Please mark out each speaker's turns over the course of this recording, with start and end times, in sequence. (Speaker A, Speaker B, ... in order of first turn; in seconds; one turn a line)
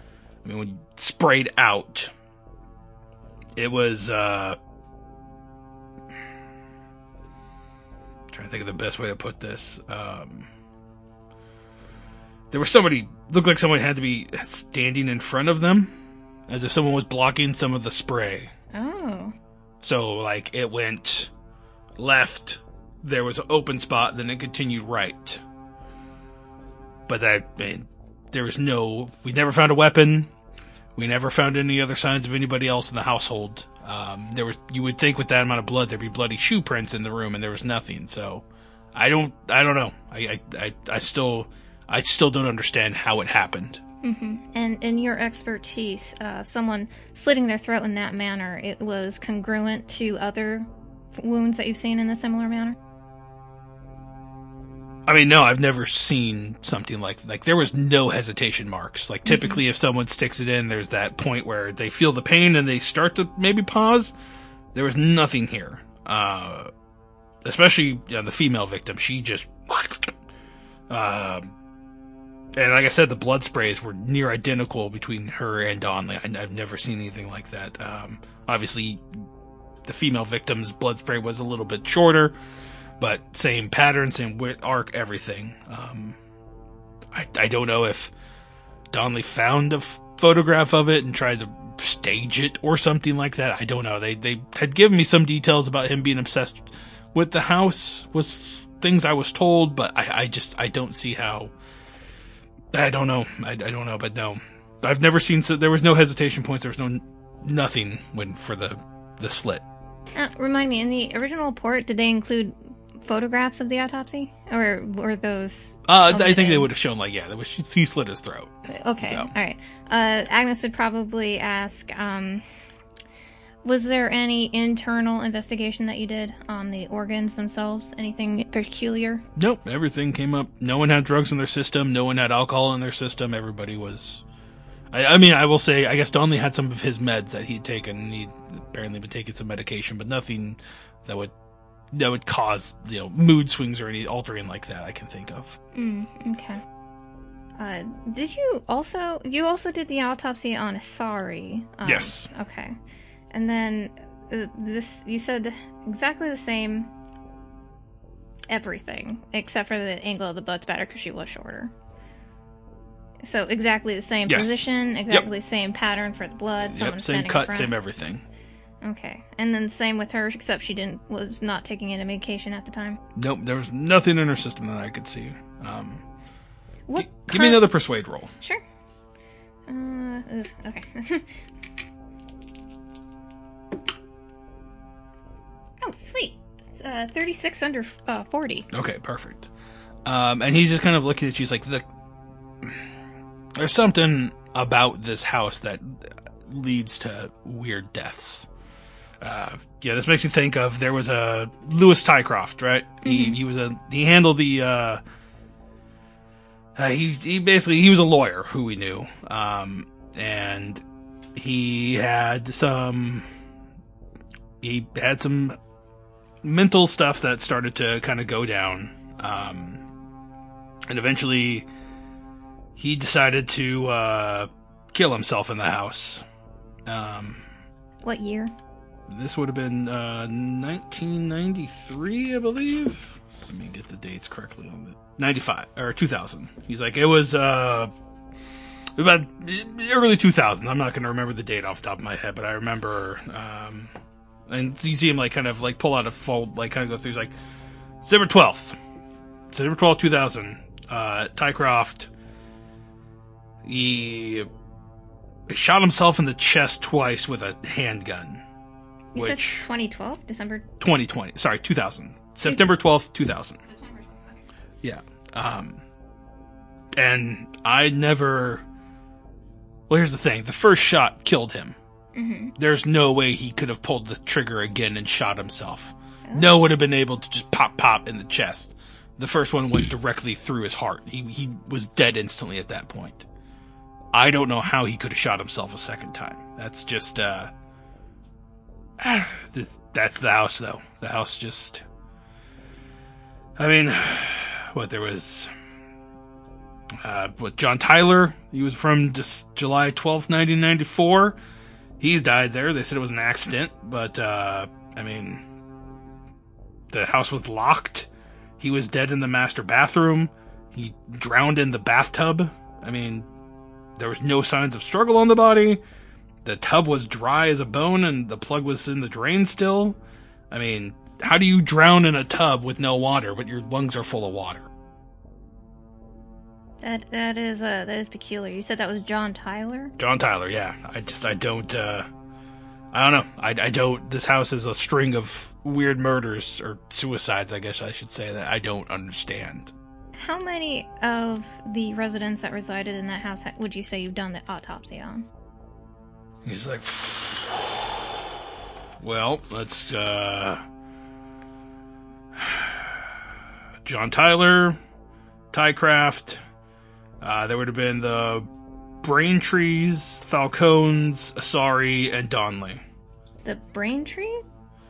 Speaker A: 0.4-2.1
Speaker A: 3.5-4.6
Speaker A: 8.3-10.5
Speaker A: 12.5-15.9
Speaker A: 16.5-18.5
Speaker B: 18.7-19.3
Speaker A: 19.8-21.3
Speaker A: 22.0-25.4
Speaker A: 27.1-30.3
Speaker A: 30.9-38.4
Speaker A: 38.9-43.8
Speaker B: 44.0-52.8
Speaker A: 55.1-64.1
Speaker B: 59.2-59.6
Speaker A: 64.7-66.7
Speaker A: 67.4-70.1
Speaker A: 70.9-71.5
Speaker A: 72.5-79.0
Speaker A: 79.8-82.3
Speaker A: 83.0-86.2
Speaker A: 87.1-88.1
Speaker A: 88.9-101.5
Speaker A: 102.7-109.6
Speaker B: 110.2-116.7
Speaker A: 115.9-119.3
Speaker B: 118.7-122.4
Speaker B: 123.6-129.2
Speaker A: 129.4-134.2
Speaker A: 134.9-141.3
Speaker A: 141.9-145.6
Speaker B: 145.7-146.6
Speaker B: 147.6-152.8
Speaker A: 151.8-152.3
Speaker B: 153.3-156.9
Speaker B: 158.5-161.7
Speaker B: 163.2-167.7
Speaker A: 164.3-165.3
Speaker A: 166.6-168.2
Speaker B: 168.8-173.0
Speaker A: 173.2-176.0
Speaker B: 176.9-177.6
Speaker A: 177.0-178.3
Speaker B: 179.7-181.3
Speaker B: 185.8-188.7
Speaker A: 188.7-189.5
Speaker A: 190.1-191.8
Speaker A: 193.6-198.5
Speaker A: 199.2-205.0
Speaker B: 203.0-203.4
Speaker A: 206.8-210.8
Speaker A: 211.3-213.3
Speaker A: 214.6-215.6
Speaker A: 216.4-219.8
Speaker A: 220.9-221.7
Speaker A: 222.8-226.2
Speaker A: 226.8-227.4
Speaker B: 228.0-228.5
Speaker A: 229.1-237.9
Speaker A: 238.9-243.9
Speaker A: 244.5-247.3
Speaker A: 248.0-248.8
Speaker A: 249.5-252.1
Speaker A: 253.6-254.5
Speaker A: 255.5-258.4
Speaker B: 259.1-260.7
Speaker A: 259.1-259.7
Speaker A: 260.8-263.6
Speaker B: 263.6-264.4
Speaker A: 264.8-265.8
Speaker A: 266.9-268.6
Speaker A: 269.9-271.8
Speaker B: 272.1-272.5
Speaker A: 272.6-283.3
Speaker B: 276.3-276.5
Speaker A: 284.1-287.5
Speaker A: 289.0-291.8
Speaker A: 293.6-295.5
Speaker A: 297.0-301.4
Speaker A: 302.0-305.4
Speaker A: 306.9-313.3
Speaker A: 314.0-315.8
Speaker A: 316.4-320.0
Speaker A: 320.5-324.7
Speaker B: 326.8-329.9
Speaker A: 330.0-332.1
Speaker A: 332.9-339.7
Speaker B: 340.2-345.2
Speaker A: 346.4-348.0
Speaker A: 349.0-350.6
Speaker A: 352.3-353.1
Speaker A: 353.8-354.8
Speaker A: 355.5-356.4
Speaker A: 357.2-358.5
Speaker A: 359.0-362.8
Speaker B: 363.4-364.4